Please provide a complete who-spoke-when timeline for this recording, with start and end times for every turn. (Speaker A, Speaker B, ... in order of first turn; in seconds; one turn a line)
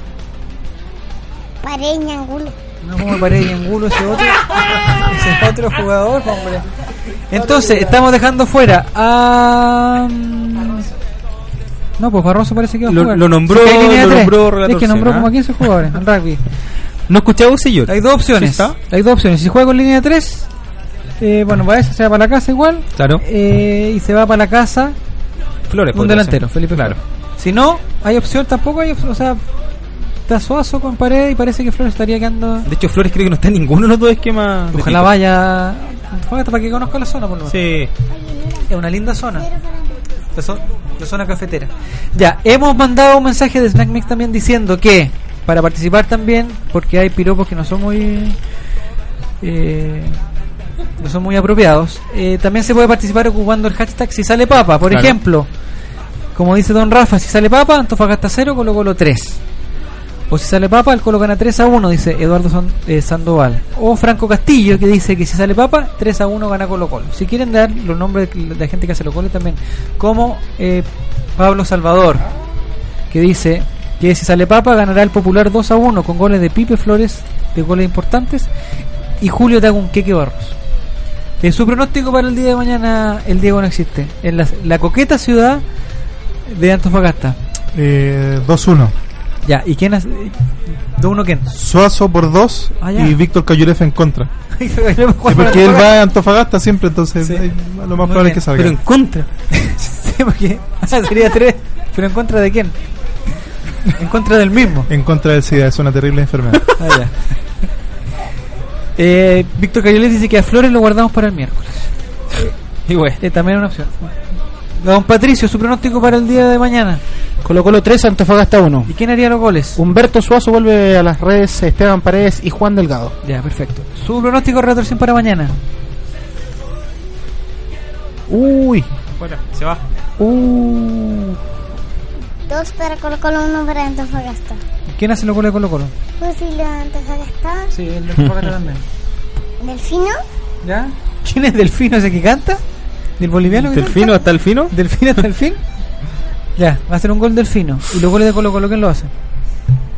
Speaker A: 1.6-2.5
Speaker B: 2.8-6.7
Speaker B: 7.3-10.9
Speaker B: 12.0-16.4
Speaker C: 12.9-15.9
Speaker C: 17.1-18.8
Speaker B: 17.9-20.5
Speaker B: 21.2-25.0
Speaker C: 23.0-23.2
Speaker C: 25.7-27.0
Speaker B: 25.9-29.4
Speaker B: 30.3-32.7
Speaker C: 32.7-35.1
Speaker B: 34.7-37.6
Speaker C: 37.5-37.9
Speaker A: 38.1-38.7
Speaker B: 38.7-39.5
Speaker A: 39.4-40.1
Speaker B: 40.4-48.4
Speaker B: 49.4-50.2
Speaker B: 51.0-55.5
Speaker C: 54.9-55.1
Speaker B: 56.4-59.4
Speaker B: 60.3-72.3
Speaker B: 73.1-78.5
Speaker B: 79.2-80.5
Speaker B: 81.4-85.6
Speaker B: 86.5-87.4
Speaker D: 87.7-88.9
Speaker B: 89.5-91.5
Speaker D: 91.5-94.3
Speaker B: 92.8-93.2
Speaker B: 94.5-95.9
Speaker D: 95.2-98.8
Speaker B: 98.0-98.5
Speaker C: 98.5-99.3
Speaker B: 99.5-102.8
Speaker B: 104.0-104.9
Speaker D: 104.9-106.7
Speaker B: 106.8-107.3
Speaker B: 109.0-112.5
Speaker C: 112.9-113.2
Speaker B: 113.2-114.1
Speaker B: 114.8-117.0
Speaker E: 117.4-118.9
Speaker B: 118.9-119.8
Speaker E: 119.8-123.2
Speaker B: 123.2-125.5
Speaker E: 128.3-128.9
Speaker C: 129.2-129.8
Speaker E: 130.2-131.4
Speaker A: 132.5-134.6
Speaker B: 134.9-135.9
Speaker A: 136.2-137.7
Speaker B: 137.7-138.8
Speaker A: 139.6-140.2
Speaker B: 140.6-142.6
Speaker B: 143.2-144.1
Speaker C: 143.5-145.3
Speaker A: 144.0-144.3
Speaker B: 144.7-145.6
Speaker B: 146.6-149.1